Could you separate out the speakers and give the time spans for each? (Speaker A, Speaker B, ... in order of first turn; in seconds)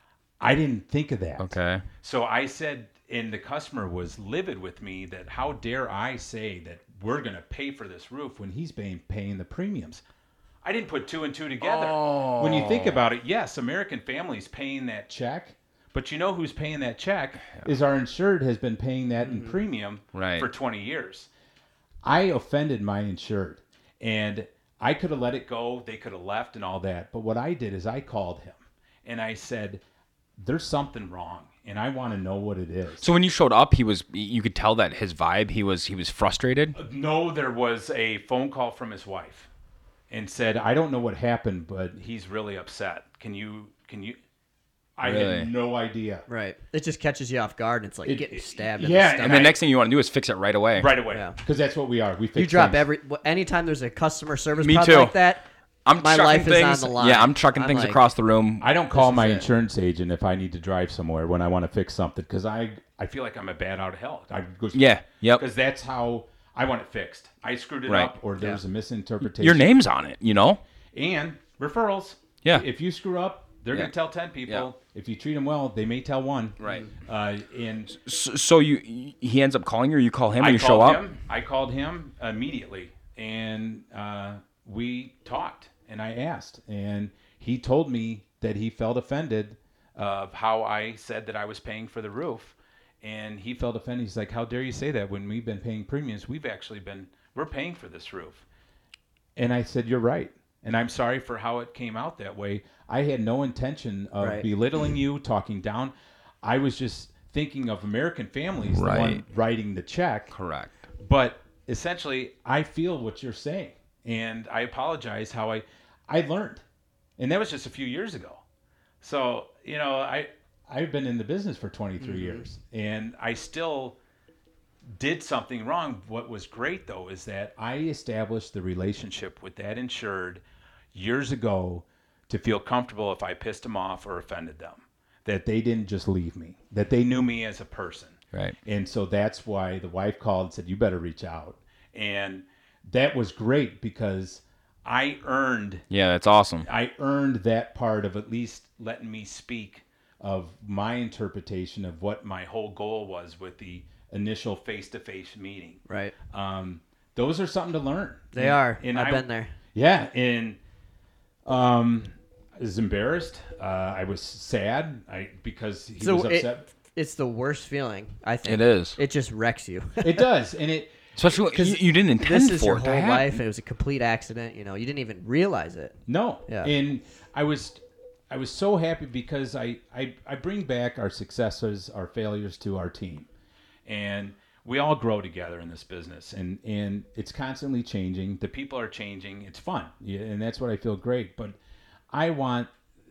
Speaker A: 0.4-10.0, 10.6-21.3, 22.0-29.8, 30.4-33.0, 36.7-39.5, 40.1-44.2, 45.0-46.2, 48.0-49.5, 50.7-52.9, 58.6-69.7, 70.9-78.0, 80.4-98.4, 99.3-110.3, 111.0-116.6, 117.2-118.4, 119.0-124.0, 124.8-130.4, 130.9-145.8, 146.6-160.6, 161.4-166.7, 170.0-171.0, 176.1-183.3, 183.8-191.6, 192.1-192.7
Speaker B: 1.4-1.8, 11.6-13.0, 20.1-20.5, 33.0-36.8, 45.0-45.5, 49.2-51.0, 54.6-55.2, 55.8-58.7, 64.7-65.4, 67.9-68.1, 69.3-70.6, 76.6-76.9, 78.0-81.0, 108.7-109.2, 110.3-110.8, 145.9-146.7, 168.4-169.0, 171.2-173.4
Speaker C: 19.2-19.5, 46.3-49.5, 51.1-51.4, 52.3-55.5, 56.0-58.0, 58.9-59.5, 104.2-104.5, 122.0-122.5, 155.9-156.1, 158.3-159.5, 166.0-170.2, 171.5-176.7